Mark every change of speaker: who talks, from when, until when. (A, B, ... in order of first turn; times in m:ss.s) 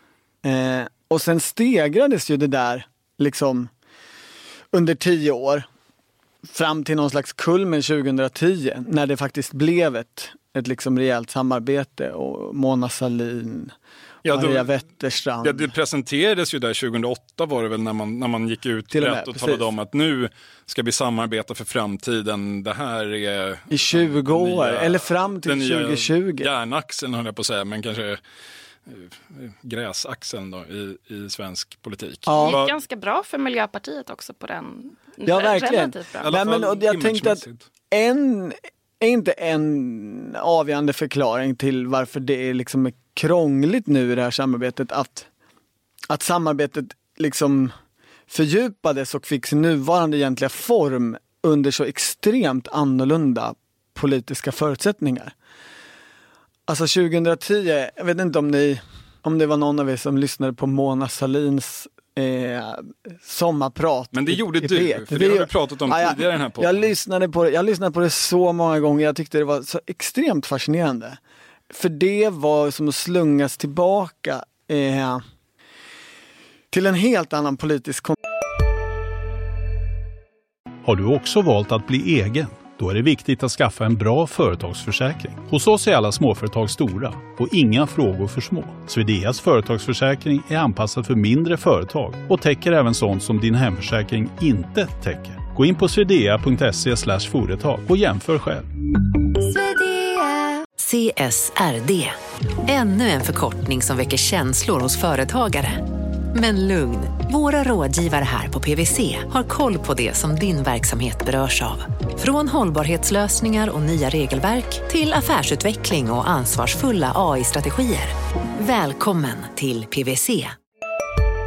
0:00.4-0:03.7 A
0:04.7-0:05.7 A
0:06.4-0:13.7 A
0:14.2-0:14.7 B
0:14.3-0:15.7 A
0:15.4-0:28.2 B
0:18.9-0:19.6 A
0:23.7-0:26.5 A
0:28.9-0:32.7 B
0:32.2-0:32.6 A
0:32.3-0:36.3 C
0:35.2-0:45.3 A
0:36.2-0:37.6 B
0:46.1-0:47.7 A
0:48.3-0:55.3 A
0:56.7-1:11.2 A
1:04.1-1:06.9 B
1:11.7-1:15.2 A
1:16.7-1:18.2 A
1:20.8-1:38.7 D
1:39.5-1:40.2 E
1:40.8-1:42.1 E
1:42.6-1:45.8 E
1:46.3-2:00.5 E